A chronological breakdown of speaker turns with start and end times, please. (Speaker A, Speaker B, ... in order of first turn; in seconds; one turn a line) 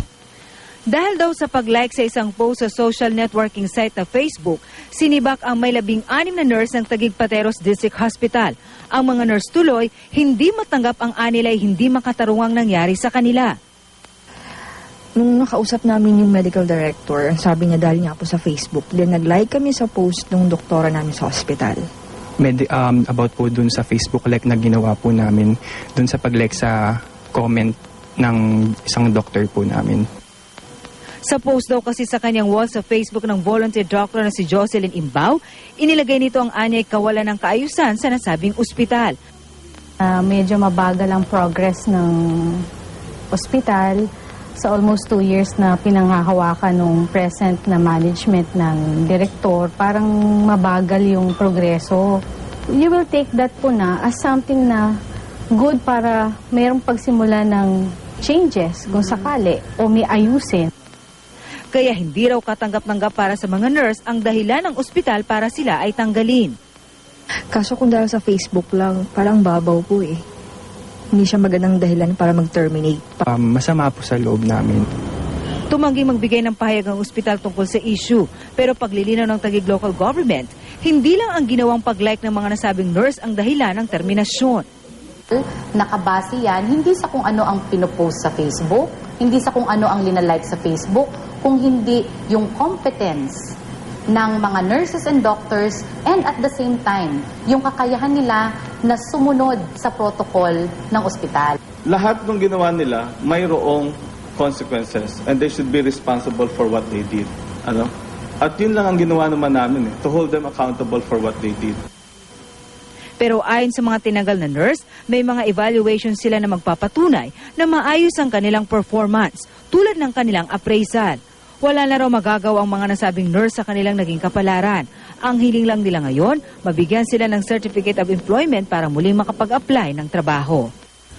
Speaker A: 0.9-13.6
Speaker B: 15.2-21.9
Speaker C: 22.4-30.0
Speaker A: 31.2-39.1
Speaker D: 40.0-42.6
Speaker D: 43.3-44.0
Speaker D: 44.6-52.2
Speaker D: 52.7-54.9
Speaker D: 55.5-60.7
Speaker A: 61.7-66.6
Speaker B: 67.5-70.2
Speaker B: 71.1-73.3
Speaker C: 73.3-74.8
Speaker A: 75.7-84.7
Speaker E: 85.3-93.4
Speaker E: 94.1-101.6
Speaker F: 101.9-111.8
Speaker A: 113.2-130.7